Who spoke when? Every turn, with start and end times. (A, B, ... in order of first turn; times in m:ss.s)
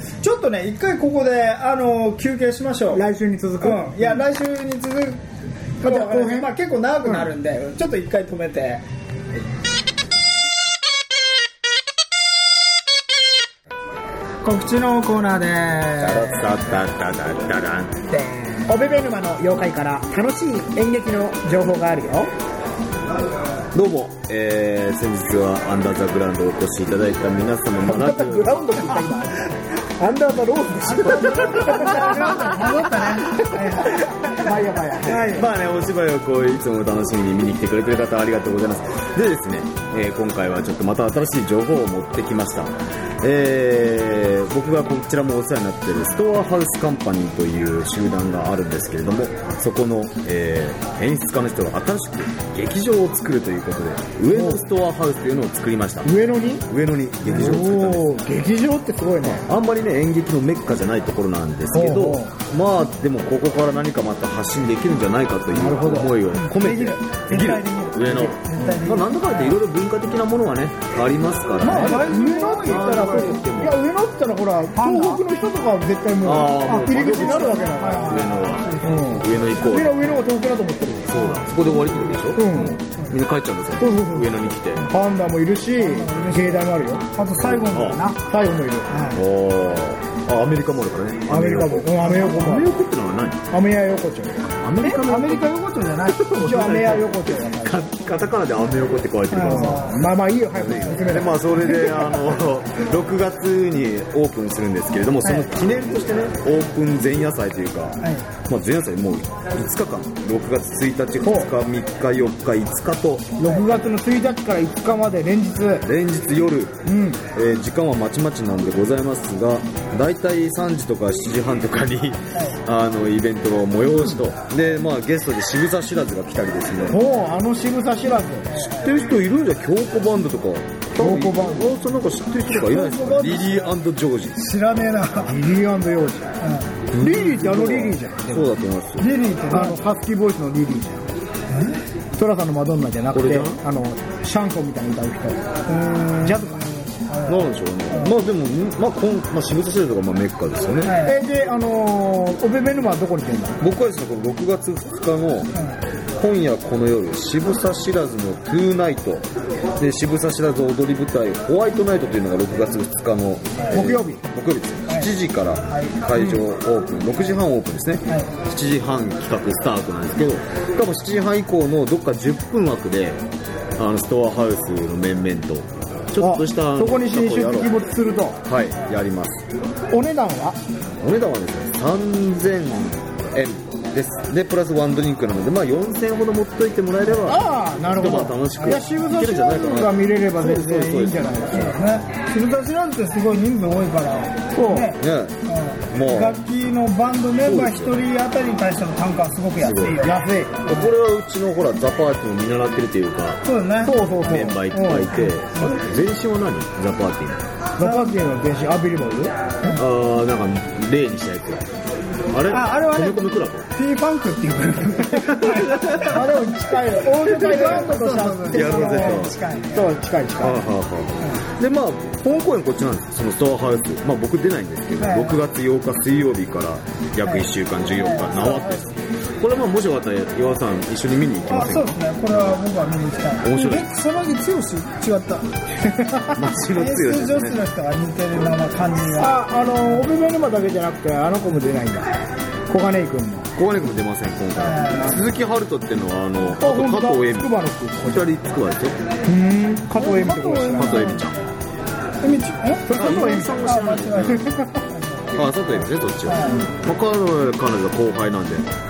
0:00.2-0:03.0 A
0:02.9-0:04.2 B
0:03.6-0:05.2 A
0:05.8-0:07.3 B
0:05.8-0:08.8 A
0:14.4-0:16.4 A
0:16.0-0:18.0 C
0:18.1-0:18.6 A
0:18.6-0:22.3 B
0:23.7-0:28.7 C
0:27.8-0:32.8 B
0:30.9-0:35.5 A
0:34.2-0:35.4 B
0:35.1-0:56.1 C
0:54.3-0:54.6 B
0:56.0-0:56.6 B
0:56.7-0:58.2 C
0:57.2-0:59.4 B
0:59.2-1:13.8 C
1:01.7-1:02.3 B
1:05.5-1:06.2 B
1:06.4-1:09.6 A
1:11.6-1:13.8 B
1:11.6-1:15.3 A
1:14.7-1:21.4 B
1:16.2-1:19.2 A
1:16.2-1:20.0 C
1:21.1-1:24.9 C
1:22.4-1:22.8 B
1:23.8-1:27.2 B
1:25.8-1:28.2 A
1:27.4-1:28.0 C
1:28.0-1:29.0 B
1:28.9-1:29.2 A
1:29.1-1:33.4 C
1:31.3-1:32.7 B
1:33.5-1:34.5 B
1:34.6-1:35.5 C
1:34.8-1:37.2 A
1:36.0-1:53.4 C
1:36.3-1:37.9 B
1:39.3-1:40.0 A
1:39.4-1:42.2 B
1:45.2-1:45.6 A
1:51.2-1:51.5 B
1:53.4-1:55.8 B
1:55.8-1:56.8 C
1:56.8-1:57.2 B
1:57.3-2:07.0 C
2:06.9-2:08.5 B
2:08.5-2:08.8 A
2:08.5-2:14.5 C
2:11.0-2:11.8 B
2:12.6-2:13.6 A
2:14.4-2:15.3 A
2:15.2-2:16.3 B
2:16.4-2:16.7 A
2:16.9-2:19.1 C
2:17.0-2:18.4 B
2:19.0-2:19.8 A
2:19.5-2:21.0 B
2:21.5-2:21.8 A
2:22.2-2:25.4 B
2:23.1-2:23.6 C
2:25.7-2:26.4 A
2:26.2-2:26.7 B
2:27.1-2:28.1 A
2:27.2-2:31.0 C
2:30.8-2:31.2 A
2:31.0-2:33.6 B
2:33.6-2:35.5 C
2:36.2-2:39.2 C
2:39.8-2:53.2 C
2:43.7-2:44.2 B
2:45.7-2:46.0 A
2:46.2-2:46.4 B
2:53.8-2:57.8 C
2:56.2-2:58.4 B
2:58.4-2:59.4 C
2:59.9-3:00.6 B
3:01.0-3:11.9 C
3:07.2-3:11.8 B
3:11.5-3:20.9 A
3:14.5-3:14.9 B
3:15.0-3:15.4 C
3:15.9-3:16.4 C
3:17.4-3:18.0 C
3:19.6-3:23.4 C
3:20.0-3:20.5 B
3:23.4-3:25.6 A
3:23.8-3:24.5 B
3:24.2-3:27.4 C
3:27.8-3:29.4 B
3:27.8-3:28.1 A
3:29.7-3:31.7 C
3:32.3-3:33.7 C
3:32.5-3:40.6 A
3:35.1-3:36.2 C
3:36.6-3:39.2 B
3:37.4-3:37.9 C
3:38.5-3:39.3 C
3:40.4-3:52.6 C
3:45.0-3:45.4 A
3:47.2-3:48.9 A
3:51.5-3:59.4 A
3:53.4-3:53.9 C
3:56.3-3:57.6 C
3:59.0-4:02.1 B
4:02.7-4:03.5 B
4:03.6-4:09.0 C
4:04.6-4:05.2 A
4:06.5-4:08.3 B
4:09.2-4:11.2 B
4:10.0-4:11.3 A
4:10.8-4:11.4 C
4:12.2-4:15.4 A
4:12.9-4:13.7 B
4:12.9-4:14.4 C
4:14.2-4:14.7 B
4:15.3-4:18.7 C
4:16.2-4:16.7 A